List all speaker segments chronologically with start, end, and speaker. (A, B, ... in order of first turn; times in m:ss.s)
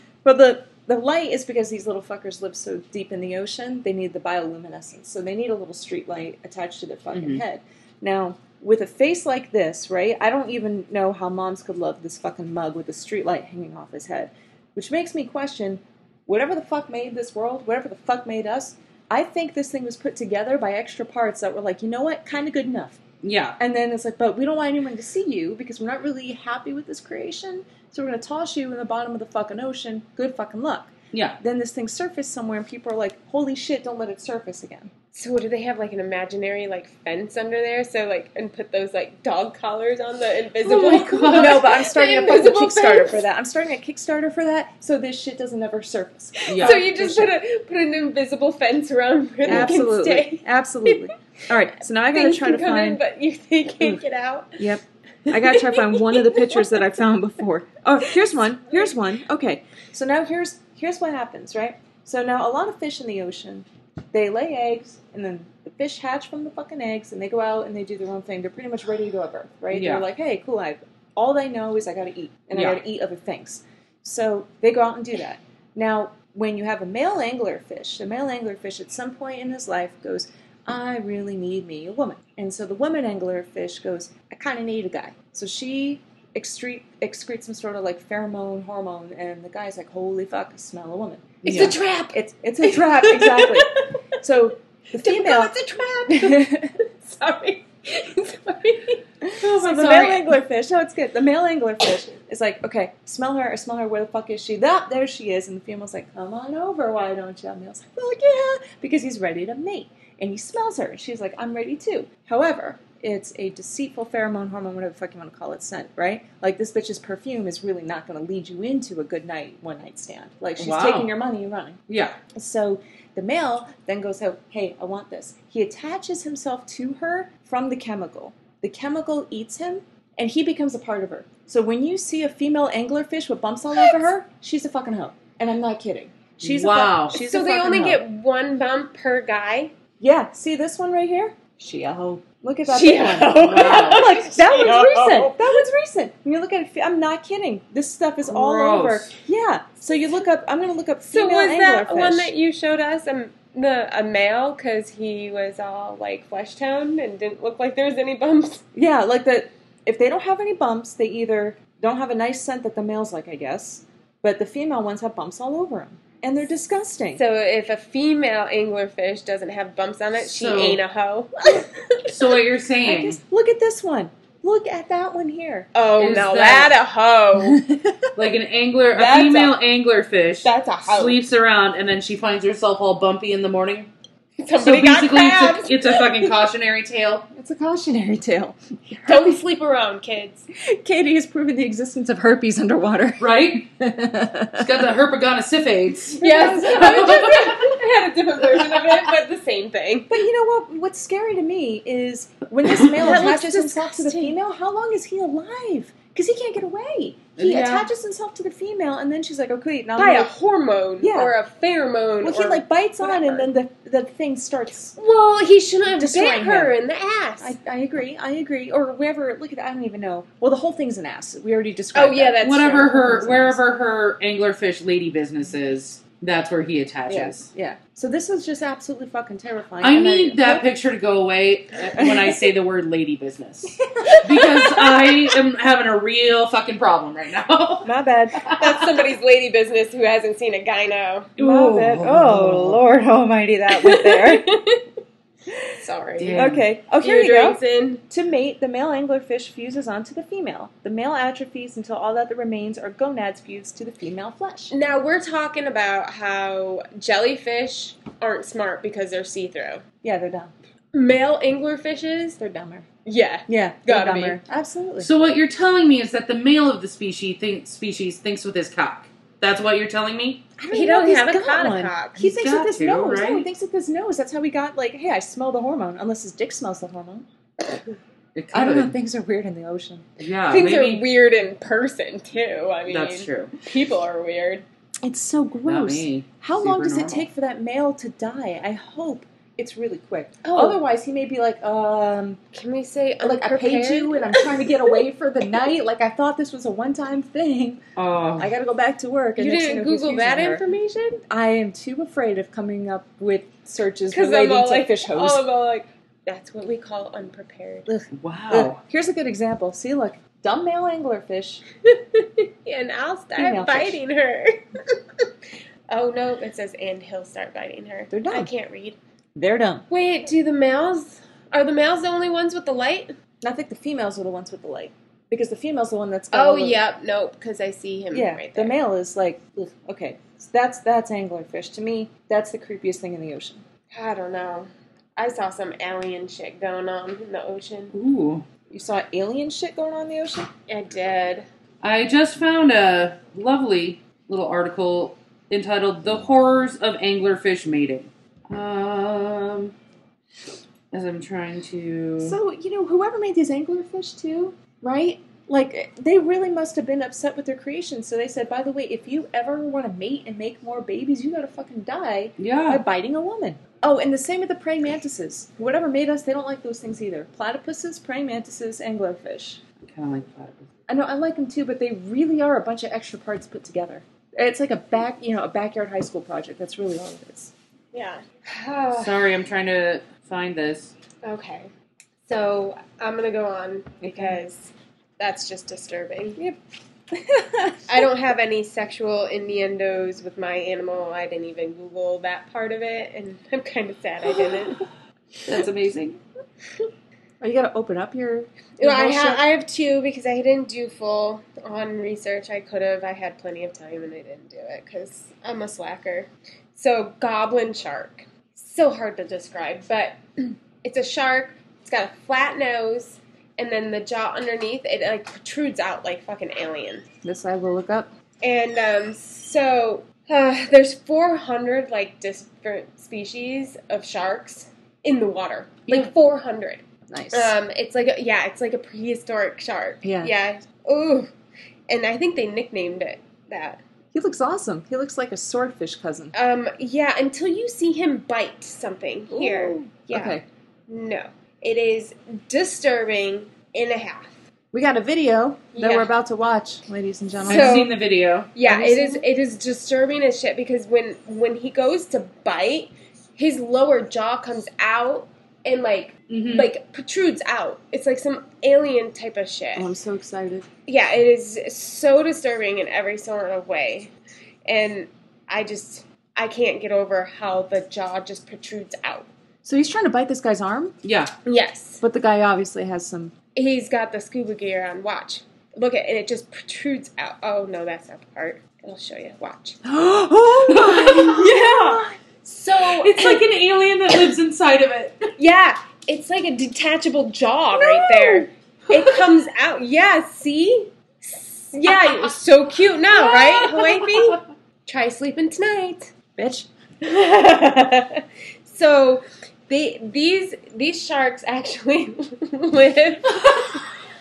0:00.2-0:23.0 A
0:07.1-0:07.4 B
0:23.2-0:23.6 B
0:23.6-0:34.9 A
0:31.1-0:31.4 B
0:35.1-0:43.2 C
0:40.6-0:41.8 B
0:41.3-0:47.3 A
0:46.5-0:51.1 C
0:46.5-0:46.8 B
0:49.4-0:53.0 A
0:49.5-0:49.8 B
0:52.1-0:54.7 C
0:54.6-1:35.5 A
0:55.3-0:56.8 C
1:09.7-1:10.1 B
1:12.5-1:12.8 B
1:31.4-1:31.8 B
1:31.4-1:33.9 C
1:35.0-1:39.0 C
1:36.1-1:36.7 A
1:39.2-2:01.8 A
1:39.4-1:40.2 B
2:00.6-2:01.1 B
2:01.9-2:02.2 B
2:02.3-2:18.0 A
2:13.7-2:14.1 C
2:16.4-2:17.2 B
2:17.1-2:19.7 C
2:20.0-2:32.3 A
2:22.7-2:25.6 C
2:23.4-2:24.1 B
2:28.2-2:29.2 B
2:31.1-2:38.6 C
2:38.8-2:47.2 A
2:47.2-2:52.4 C
2:50.2-2:50.8 B
2:52.1-2:53.2 B
2:52.8-2:55.7 A
2:55.8-2:57.6 C
2:56.0-2:56.7 B
2:57.4-2:58.1 A
2:58.2-3:03.9 B
2:59.0-2:59.5 C
3:00.4-3:01.2 C
3:04.4-3:06.3 C
3:04.6-3:07.3 B
3:07.4-3:09.4 A
3:09.1-3:10.4 C
3:10.7-3:14.7 A
3:13.2-3:13.6 B
3:14.6-3:17.6 B
3:16.2-3:17.3 A
3:16.2-3:20.2 C
3:20.1-3:30.3 A
3:22.7-3:23.4 B
3:23.0-3:24.4 C
3:27.4-3:27.8 B
3:27.5-3:27.8 C
3:30.0-3:33.5 C
3:31.0-3:31.4 A
3:32.2-3:35.0 A
3:35.0-3:37.6 C
3:36.0-3:36.7 A
3:37.4-3:43.6 A
3:41.9-3:43.2 C
3:42.4-3:47.5 B
3:47.1-3:50.7 A
3:49.8-3:59.1 B
3:53.8-3:55.0 A
3:57.8-3:58.4 A
3:58.6-4:01.3 C
4:01.4-4:02.8 B
4:01.4-4:04.5 A
4:03.7-4:04.8 C
4:05.5-4:05.8 A
4:05.8-4:08.0 C
4:06.2-4:06.6 B
4:06.4-4:14.7 A
4:14.7-4:19.8 C
4:20.0-4:20.5 A
4:20.9-4:22.4 C
4:22.4-4:22.9 A
4:23.0-4:24.4 C
4:23.5-4:25.1 A
4:25.0-4:30.4 B
4:30.6-4:37.3 A
4:30.7-4:32.2 C
4:32.2-4:33.5 B
4:38.4-4:39.0 B
4:38.5-4:40.0 A
4:40.2-4:41.0 B
4:40.5-4:44.6 C
4:42.9-4:43.5 B
4:45.0-4:52.4 A
4:45.7-4:47.3 B
4:50.4-4:50.8 C
4:52.5-4:55.0 C
4:53.2-4:57.8 A
4:58.0-4:58.5 B
4:58.4-5:00.6 A
4:59.4-5:01.2 C
5:01.3-5:05.4 A
5:04.1-5:07.9 C
5:07.9-5:11.6 A
5:08.1-5:08.8 B
5:11.8-5:15.2 C
5:13.4-5:14.0 A
5:15.9-5:19.0 C
5:18.1-5:18.5 A
5:19.4-5:19.8 A
5:19.9-5:23.1 C
5:23.4-5:26.8 A
5:26.3-5:28.8 C
5:28.1-5:33.6 A
5:33.9-5:37.9 C
5:37.9-5:38.5 B
5:38.7-5:40.5 A
5:40.7-5:41.5 C
5:41.8-5:49.7 B
5:50.9-5:52.4 B
5:52.2-6:09.6 A
6:02.4-6:02.8 B
6:09.8-6:10.7 B
6:10.9-6:17.5 A
6:17.9-6:19.3 C
6:19.0-6:20.9 B
6:21.2-6:21.7 C
6:22.3-6:26.4 C
6:24.0-6:24.4 A
6:27.1-6:28.1 A
6:27.9-6:34.8 C
6:35.5-6:36.2 A
6:37.4-6:39.4 A
6:38.8-6:57.1 C
6:57.2-6:58.1 A
6:58.4-7:11.3 C
7:07.1-7:07.6 A
7:10.0-7:10.3 A
7:11.9-7:13.8 C
7:14.1-7:16.3 A
7:16.3-7:24.4 C
7:19.3-7:20.4 A
7:24.7-7:27.9 A
7:25.8-7:26.1 C
7:27.4-7:28.0 C
7:27.5-7:28.5 B
7:28.5-7:39.9 C
7:28.6-7:29.2 A
7:36.3-7:36.7 B
7:39.8-7:40.7 A
7:40.9-7:44.1 C
7:44.7-7:49.3 C
7:49.6-7:51.0 A
7:51.0-7:51.3 B
7:51.4-7:52.0 C
7:52.0-7:53.3 A
7:53.6-7:59.8 C
7:59.8-8:02.1 A
8:00.7-8:01.6 B
8:01.1-8:03.5 C
8:02.8-8:05.3 B
8:05.4-8:16.1 C
8:08.0-8:08.5 A
8:13.6-8:14.1 B
8:16.4-8:16.7 A
8:17.0-8:23.9 C